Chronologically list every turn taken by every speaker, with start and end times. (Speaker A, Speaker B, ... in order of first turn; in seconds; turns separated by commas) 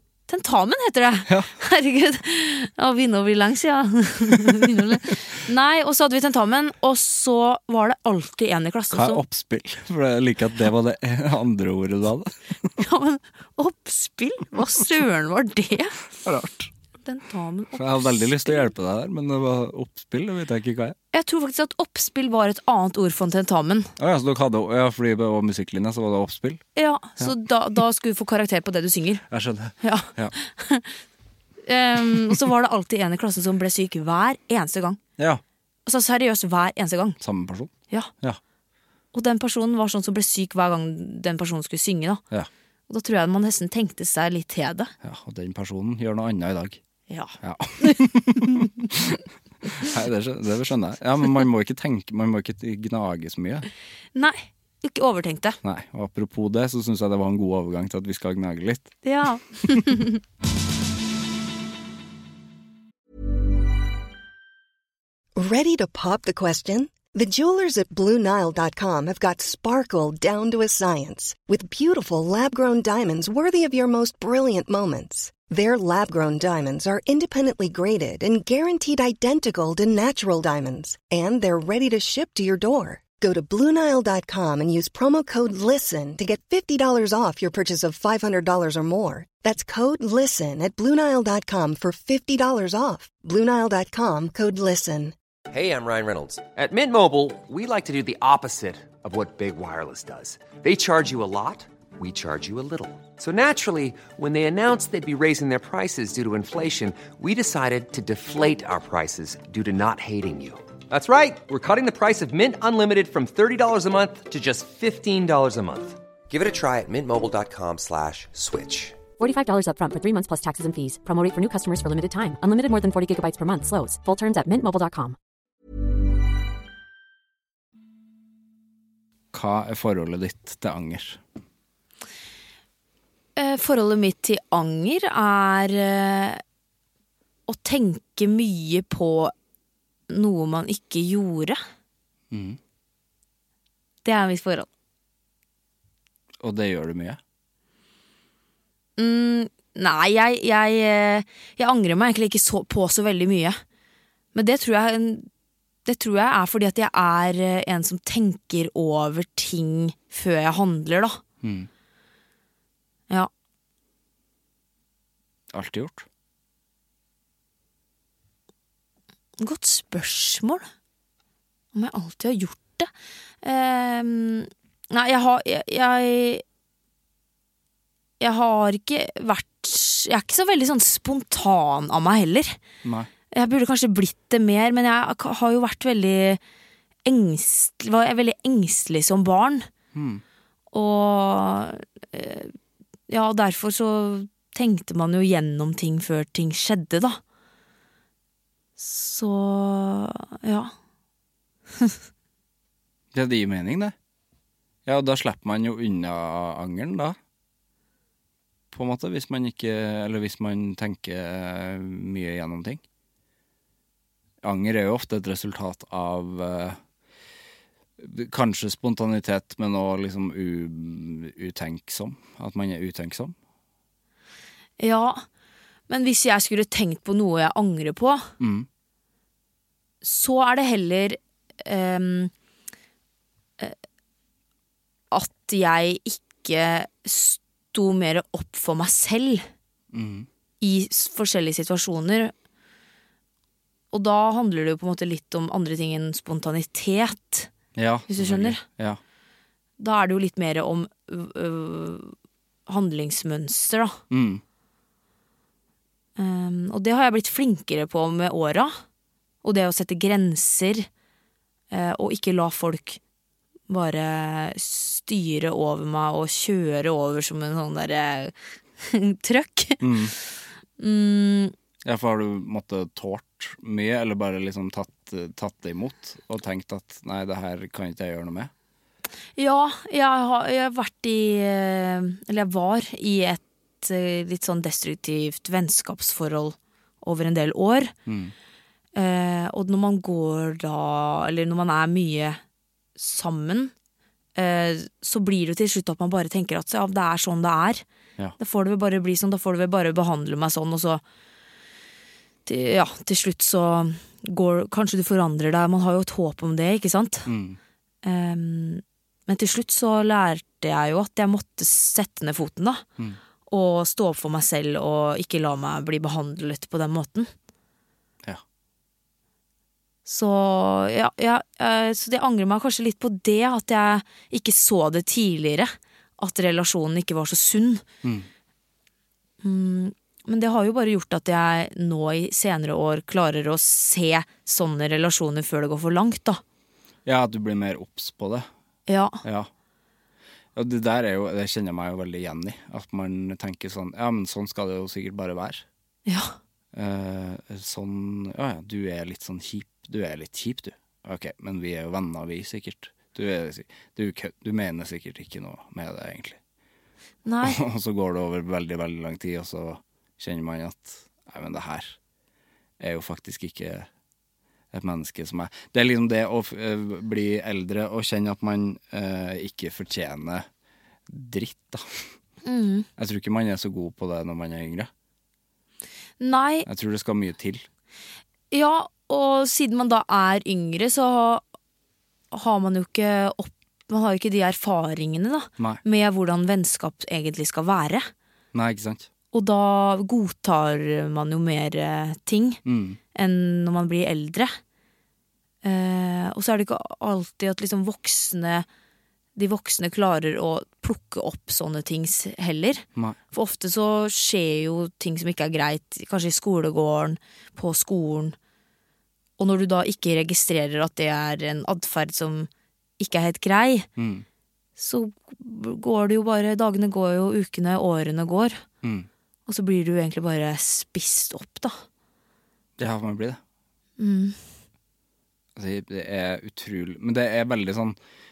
Speaker A: 0.3-9.2, Speaker B: 8.9-12.7, Speaker A: 12.8-16.0, Speaker B: 16.2-16.7, Speaker A: 17.0-18.6, Speaker B: 17.7-20.9, Speaker A: 21.1-23.9, Speaker B: 24.0-26.6, Speaker A: 26.8-29.2, Speaker B: 29.3-30.3, Speaker A: 29.8-30.9, Speaker A: 31.6-35.0, Speaker A: 35.9-37.2, Speaker B: 37.2-38.4, Speaker A: 39.1-42.2, Speaker A: 42.9-44.9, Speaker B: 45.0-46.8, Speaker A: 47.1-48.6, Speaker B: 47.4-49.2, Speaker B: 49.8-53.7, Speaker A: 54.1-55.6, Speaker B: 55.6-59.0, Speaker A: 59.0-60.2, Speaker C: 65.3-95.1, Speaker D: 95.5-119.0, Speaker E: 119.2-125.2, Speaker B: 129.3-131.2, Speaker A: 133.3-136.4, Speaker A: 137.5-139.3, Speaker A: 140.1-141.6, Speaker B: 142.3-142.6, Speaker A: 144.0-144.7, Speaker B: 146.4-147.2, Speaker A: 149.0-153.6, Speaker A: 154.3-155.3, Speaker A: 155.8-161.2, Speaker B: 161.4-161.7, Speaker B: 165.5-166.1, Speaker A: 169.4-170.7, Speaker A: 171.7-172.9, Speaker A: 173.4-176.4, Speaker A: 178.2-182.6, Speaker B: 182.8-183.1, Speaker A: 183.3-186.4, Speaker A: 187.1-189.7, Speaker B: 189.9-190.2, Speaker A: 190.7-192.5, Speaker A: 193.1-197.2, Speaker A: 198.8-200.7, Speaker B: 203.1-203.9, Speaker B: 204.8-207.2, Speaker B: 208.7-212.8, Speaker B: 214.4-216.8, Speaker B: 218.0-223.3, Speaker A: 224.8-225.2, Speaker A: 225.9-228.3, Speaker B: 228.4-228.7, Speaker A: 230.0-232.3, Speaker A: 235.1-239.5, Speaker B: 239.9-240.3, Speaker A: 240.6-242.3, Speaker A: 243.9-247.5, Speaker B: 247.7-249.0, Speaker A: 248.1-248.6, Speaker A: 249.8-252.1, Speaker A: 252.7-254.0, Speaker B: 254.1-254.4, Speaker A: 256.2-258.8, Speaker A: 259.4-260.9, Speaker A: 261.7-263.0, Speaker A: 263.7-271.5, Speaker B: 269.8-270.1, Speaker B: 271.8-278.5, Speaker A: 279.4-287.9, Speaker B: 288.1-288.3, Speaker A: 288.9-292.4, Speaker A: 293.0-293.7, Speaker A: 294.4-297.8, Speaker A: 298.4-301.0, Speaker A: 302.4-307.3, Speaker B: 307.2-307.6, Speaker A: 308.0-312.8, Speaker A: 313.5-317.3, Speaker A: 320.1-327.8, Speaker B: 328.0-328.3, Speaker A: 329.4-336.4, Speaker B: 337.0-338.5, Speaker A: 338.9-339.2, Speaker B: 339.2-339.5, Speaker B: 340.6-345.6, Speaker A: 346.1-346.4, Speaker B: 346.7-356.4, Speaker A: 357.2-357.6, Speaker B: 357.4-362.0, Speaker B: 362.8-363.9, Speaker B: 364.7-370.4, Speaker B: 371.1-372.0, Speaker A: 372.4-372.9, Speaker B: 373.0-374.9, Speaker A: 376.2-376.6, Speaker B: 376.6-377.6, Speaker A: 378.5-381.4, Speaker A: 382.3-388.1, Speaker B: 388.5-389.1, Speaker A: 389.3-392.6, Speaker B: 392.6-393.0, Speaker A: 393.1-394.6, Speaker A: 395.6-398.6, Speaker A: 399.4-408.4, Speaker A: 409.4-413.9, Speaker B: 414.0-414.2, Speaker A: 414.8-418.6, Speaker B: 418.8-419.1, Speaker A: 419.5-421.8, Speaker B: 422.8-423.4, Speaker A: 424.0-424.4, Speaker B: 425.6-428.0